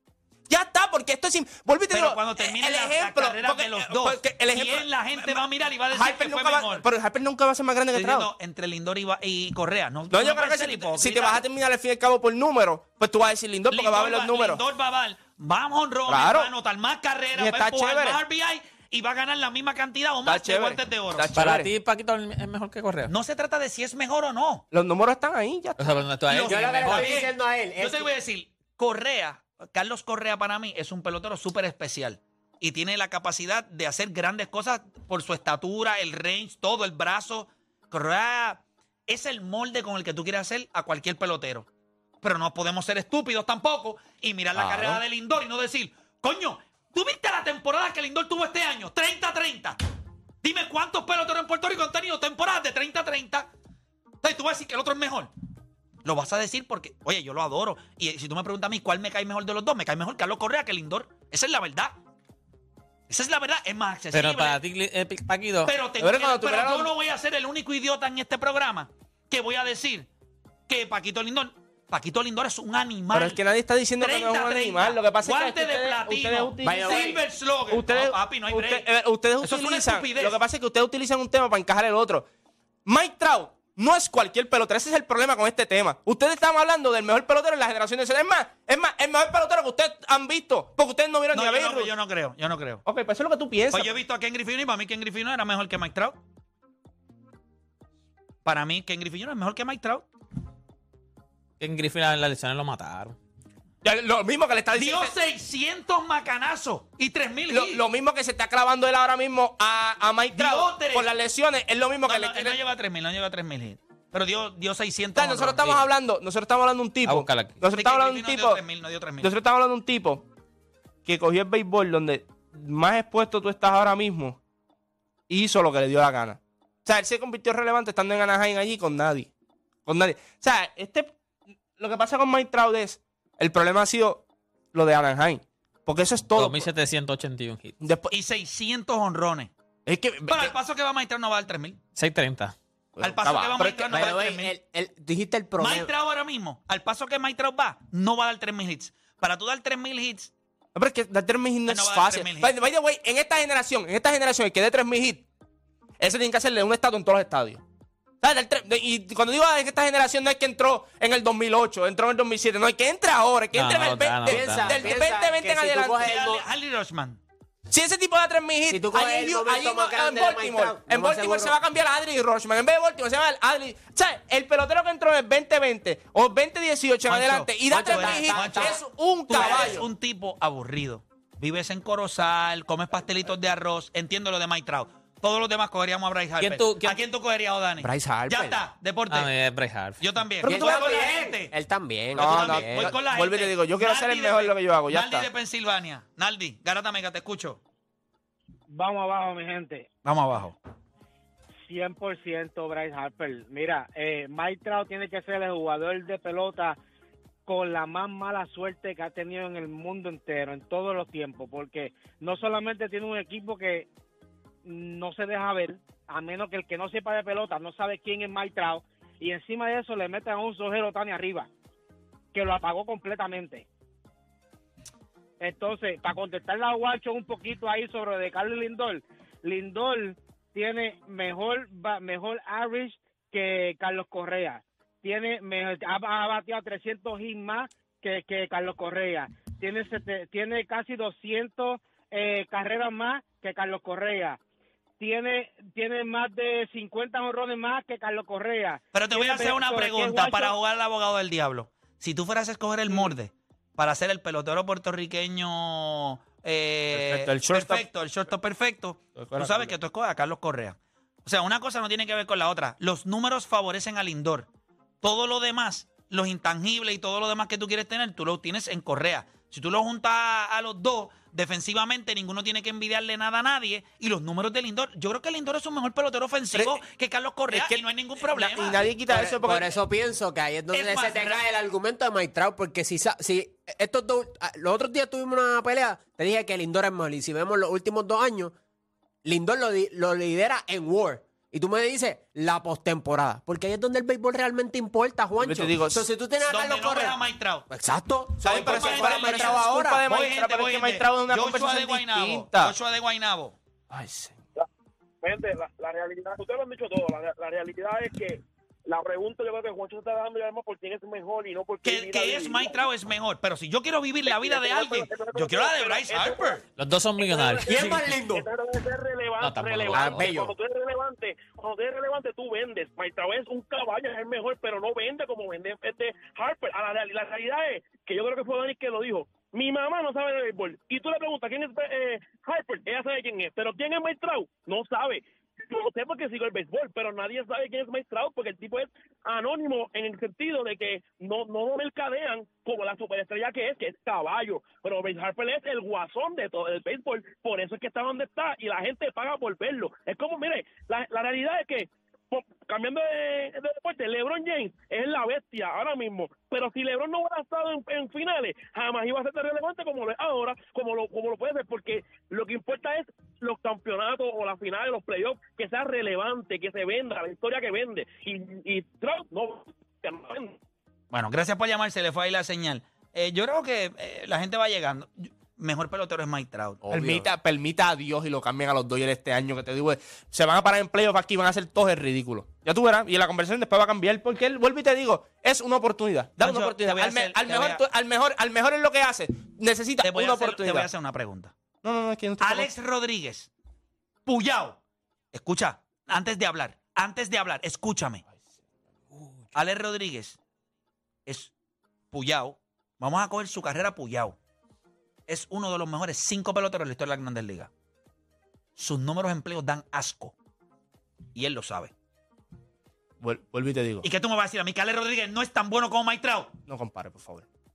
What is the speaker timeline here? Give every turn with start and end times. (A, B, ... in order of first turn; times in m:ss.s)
0:00.5-0:08.3 A
0:01.9-0:06.9 B
0:07.9-0:11.4 B
0:10.1-0:14.6 A
0:13.7-0:21.3 B
0:16.1-0:16.5 A
0:17.4-0:18.2 A
0:20.2-0:21.7 A
0:21.3-0:23.1 C
0:23.1-0:24.6 B
0:24.7-0:25.8 A
0:25.8-0:27.2 C
0:26.3-0:41.7 B
0:26.4-0:28.1 D
0:42.2-0:49.8 B
0:44.6-0:45.0 A
0:50.4-0:53.5 B
0:54.2-0:55.3 B
0:56.0-1:02.0 B
1:03.1-1:04.6 B
1:04.1-1:05.7 C
1:05.7-1:10.1 B
1:06.0-1:06.9 A
1:10.7-1:13.4 B
1:13.1-1:22.3 A
1:14.0-1:18.9 B
1:16.6-1:17.2 D
1:19.4-1:20.4 B
1:22.9-1:31.9 A
1:31.3-1:32.8 B
1:32.9-1:34.0 A
1:33.7-1:36.2 B
1:38.4-1:40.1 B
1:41.6-1:43.2 C
1:43.8-1:45.1 A
1:44.8-1:47.8 B
1:47.5-1:52.6 A
1:50.3-1:51.1 B
1:52.1-1:55.7 B
1:55.2-1:58.6 A
1:57.1-1:57.6 C
1:57.7-1:59.3 B
1:59.2-2:00.2 A
2:01.0-2:04.4 A
2:05.3-2:09.3 A
2:09.9-2:11.1 A
2:11.8-2:16.7 A
2:16.4-2:17.8 C
2:17.8-2:18.1 A
2:18.1-2:19.5 B
2:19.9-2:20.5 A
2:20.3-2:21.8 B
2:22.0-2:22.6 C
2:23.0-2:24.2 A
2:23.0-2:24.5 B
2:23.9-2:25.9 D
2:25.6-2:30.3 B
2:30.8-2:35.2 A
2:31.7-2:32.6 B
2:36.0-2:37.6 A
2:38.2-2:46.1 A
2:43.6-2:45.0 C
2:44.3-2:46.4 D
2:46.0-2:47.2 B
2:47.7-2:59.9 A
2:48.7-2:51.5 D
2:57.1-3:09.3 B
2:57.7-2:58.8 D
2:59.3-2:59.8 D
3:06.4-3:07.0 C
3:07.8-3:08.6 D
3:09.1-3:10.0 C
3:10.0-3:11.5 B
3:10.4-3:10.9 A
3:10.4-3:12.9 D
3:12.2-3:15.3 A
3:12.2-3:17.6 B
3:18.7-3:19.9 E
3:20.0-3:20.6 B
3:21.7-3:26.8 E
3:27.5-3:33.9 E
3:34.6-3:41.5 E
3:42.3-3:43.7 E
3:45.4-4:04.4 E
4:05.0-4:10.5 E
4:08.9-4:24.5 B
4:16.9-4:17.8 A
4:19.2-4:19.8 A
4:25.0-4:38.8 B
4:36.5-4:36.8 A
4:37.5-4:39.8 A
4:39.1-4:48.5 D
4:40.7-4:41.4 B
4:49.2-4:57.2 D
4:55.4-4:56.0 A
4:56.4-4:57.7 B
4:57.7-5:00.0 D
4:58.4-5:02.8 A
4:58.4-5:03.6 B
5:03.9-5:04.4 A
5:05.2-5:12.8 F
5:11.8-5:16.6 B
5:14.2-5:16.6 F
5:16.8-5:18.0 C
5:17.2-6:10.6 F
5:17.7-5:18.5 D
5:19.4-5:20.3 C
5:19.9-5:20.5 D
6:11.1-6:16.8 B
6:16.8-6:17.3 D
6:16.9-6:30.9 A
6:26.4-6:27.8 B
6:30.0-6:31.5 B
6:31.8-6:32.7 A
6:32.4-6:33.5 B
6:34.3-6:34.8 B
6:35.3-6:38.2 B
6:39.5-6:40.4 B
6:41.3-6:41.5 B
6:42.1-6:44.4 B
6:45.3-6:47.7 B
6:48.8-6:50.3 B
6:51.4-6:51.9 B
6:53.2-6:54.1 A
6:54.0-6:56.5 B
6:56.7-6:57.4 A